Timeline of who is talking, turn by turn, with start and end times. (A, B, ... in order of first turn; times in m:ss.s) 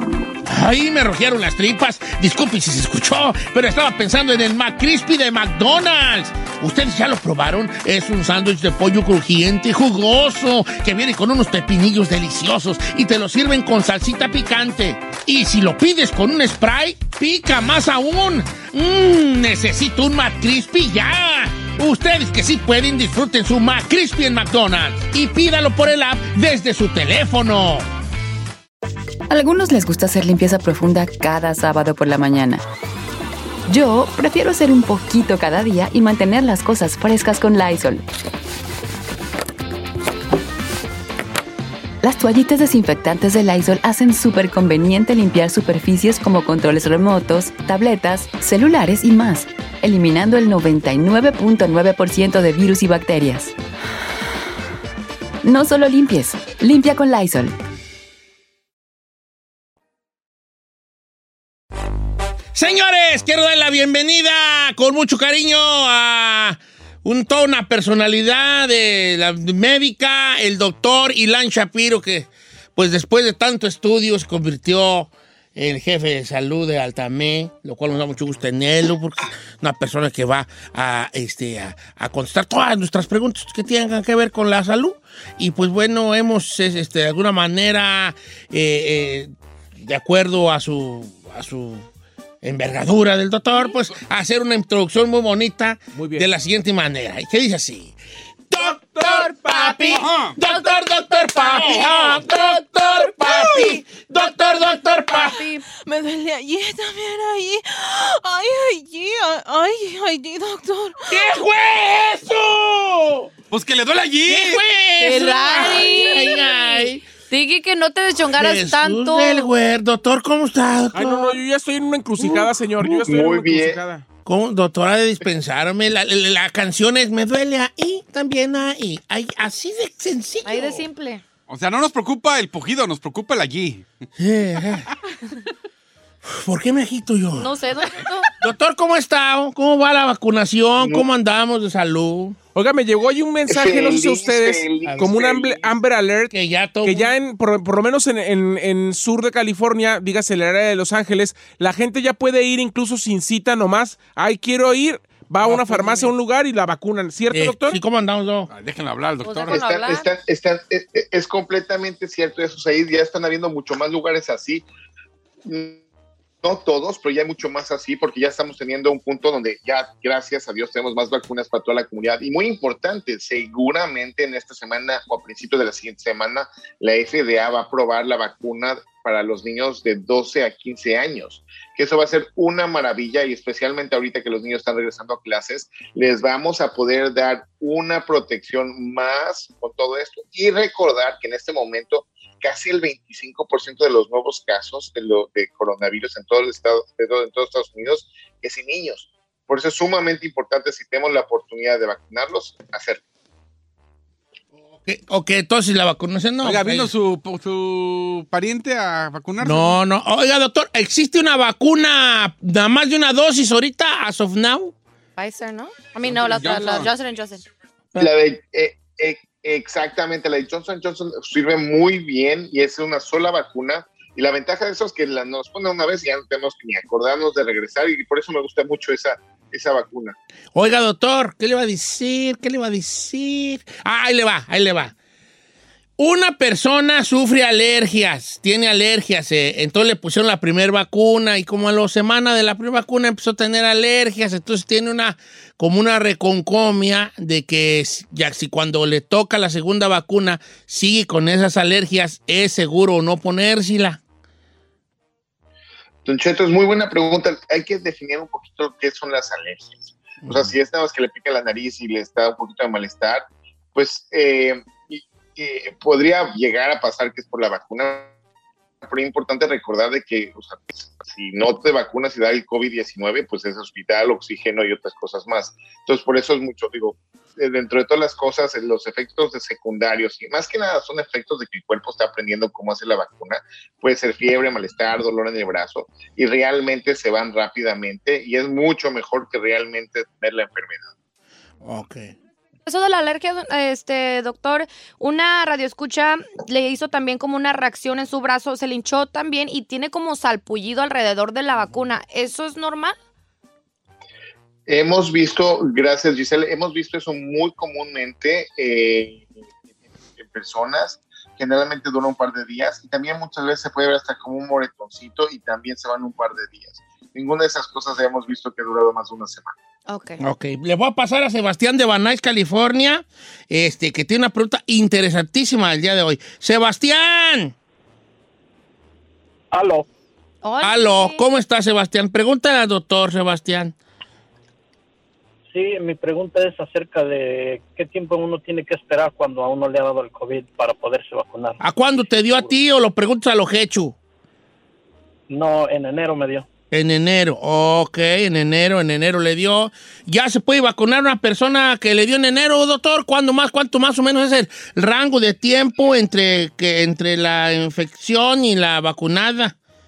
0:00.4-0:27.9 A
0:29.3-0:32.6 B
0:33.7-0:38.0 B
0:42.0-0:53.5 B
0:55.4-0:57.6 B
1:02.5-1:31.9 A
1:32.4-1:38.0 A
1:35.9-1:36.2 C
1:38.5-1:45.5 A
1:38.7-1:43.8 D
1:40.0-1:40.3 E
1:45.1-1:45.6 D
1:45.9-1:51.3 F
1:51.1-1:53.3 A
1:53.5-1:54.6 E
1:54.3-1:57.0 A
1:55.0-1:59.5 D
1:58.3-2:01.4 A
2:00.9-2:04.0 C
2:02.2-2:03.0 A
2:03.0-2:03.8 G
2:04.3-2:10.9 A
2:10.4-2:11.2 D
2:11.5-2:13.8 E
2:14.2-2:14.9 A
2:16.2-2:17.6 A
2:17.4-2:18.3 D
2:18.4-2:22.4 A
2:20.8-2:21.1 G
2:22.6-2:37.8 C
2:23.5-2:25.7 G
2:24.9-2:25.1 A
2:26.3-2:27.1 A
2:35.4-2:36.1 A
2:37.3-2:38.5 A
2:38.5-2:39.6 E
2:39.2-2:40.1 D
2:39.5-2:44.6 G
2:45.4-2:45.8 G
2:46.4-3:23.0 G
3:24.9-3:26.9 A
3:26.4-3:29.8 E
3:29.4-3:34.8 A
3:35.2-3:37.4 D
3:36.0-3:36.9 E
3:38.0-3:50.2 G
3:50.6-3:54.9 A
3:56.0-4:14.0 A
4:16.0-4:28.1 G
4:20.2-4:20.6 A
4:28.8-4:50.9 G
4:51.6-4:52.1 A
4:52.7-5:03.0 D
5:04.7-5:09.3 G
5:10.2-5:19.6 G
5:19.9-5:20.2 D
5:20.2-5:27.5 A
5:29.5-5:29.9 H
5:30.4-5:31.2 D
5:30.6-5:33.8 A
5:35.5-5:41.6 H
5:41.6-5:44.0 A
5:45.3-5:46.5 H
5:46.7-5:59.6 A